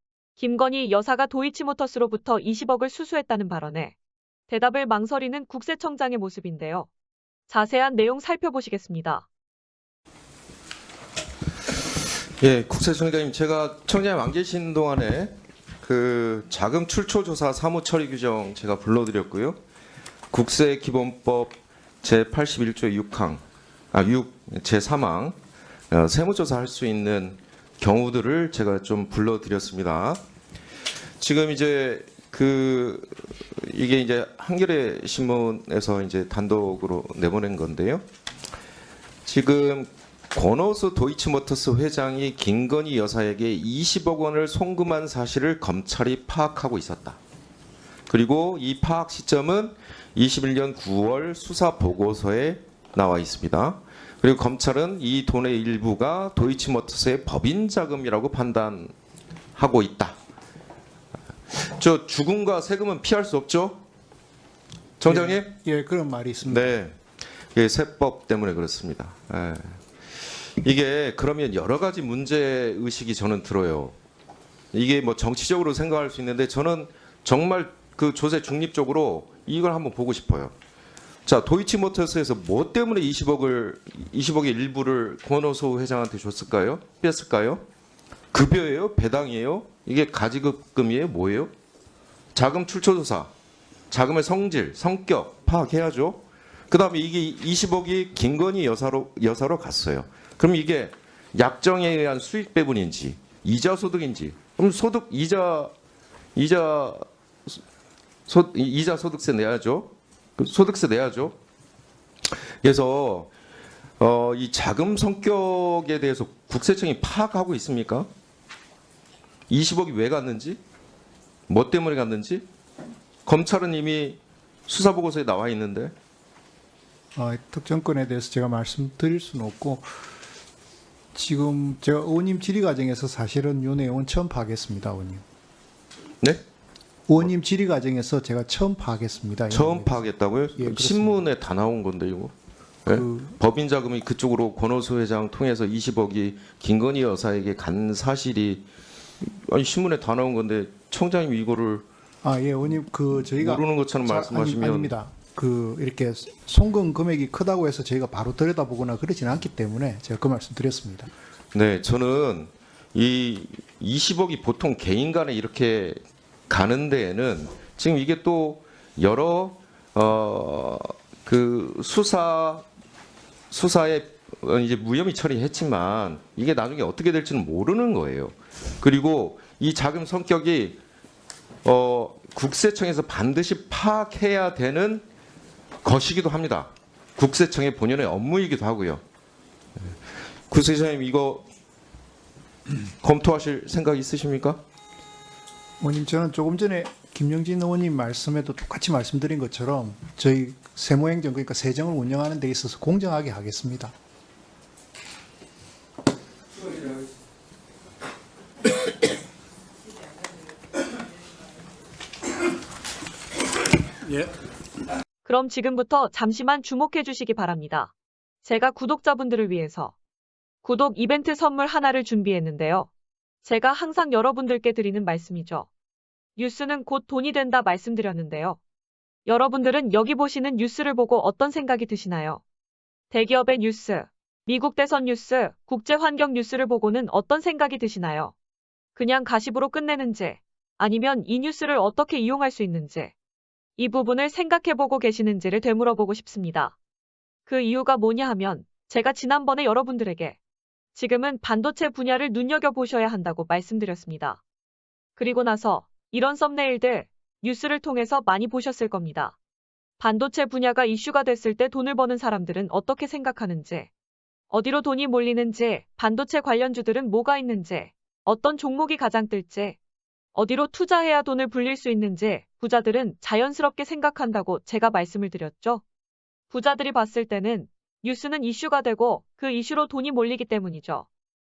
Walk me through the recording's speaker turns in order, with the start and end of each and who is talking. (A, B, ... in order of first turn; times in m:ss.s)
0:00.4-0:04.0 A
0:04.5-0:06.9 A
0:07.5-0:09.3 A
0:12.4-0:19.6 B
0:20.3-0:23.4 B
0:23.9-0:25.4 B
0:25.9-0:30.2 B
0:31.2-0:38.0 B
0:39.3-0:47.2 B
0:48.1-0:58.9 B
0:59.6-1:00.2 B
1:01.5-1:03.8 B
1:05.0-1:05.5 B
1:05.1-1:06.7 C
1:06.4-1:07.0 B
1:07.6-1:09.8 B
1:10.6-1:14.0 B
1:14.7-1:20.5 B
1:21.3-1:27.6 B
1:28.3-1:31.5 B
1:32.4-1:33.3 B
1:33.9-1:45.7 B
1:46.4-1:47.0 B
1:48.3-1:51.4 B
1:52.6-1:53.3 B
1:54.0-1:58.1 B
1:59.5-2:00.6 B
2:01.5-2:02.4 B
2:03.3-2:05.9 B
2:07.2-2:09.9 C
2:11.1-2:15.2 C
2:17.1-2:20.0 C
2:19.5-2:22.3 B
2:20.6-2:21.2 C
2:22.9-2:28.6 B
2:22.9-2:23.4 C
2:29.2-2:31.8 B
2:32.2-2:41.1 C
2:33.2-2:35.0 B
2:41.5-2:46.0 B
2:46.5-2:52.6 B
2:53.5-3:00.8 B
3:01.6-3:05.0 B
3:05.8-3:09.0 B
3:10.5-3:11.5 B
3:13.0-3:14.6 B
3:15.8-3:23.9 C
3:35.2-3:37.9 A
3:38.4-3:40.0 A
3:40.6-3:42.9 A
3:43.4-3:45.7 A
3:46.4-3:48.6 A
3:49.3-3:52.4 A
3:53.1-3:58.3 A
3:59.0-4:03.1 A
4:03.8-4:06.8 A
4:07.5-4:10.4 A
4:11.0-4:14.4 A
4:15.2-4:19.4 A
4:20.0-4:23.9 A
4:24.5-4:29.8 A
4:30.4-4:35.8 A
4:36.5-4:41.1 A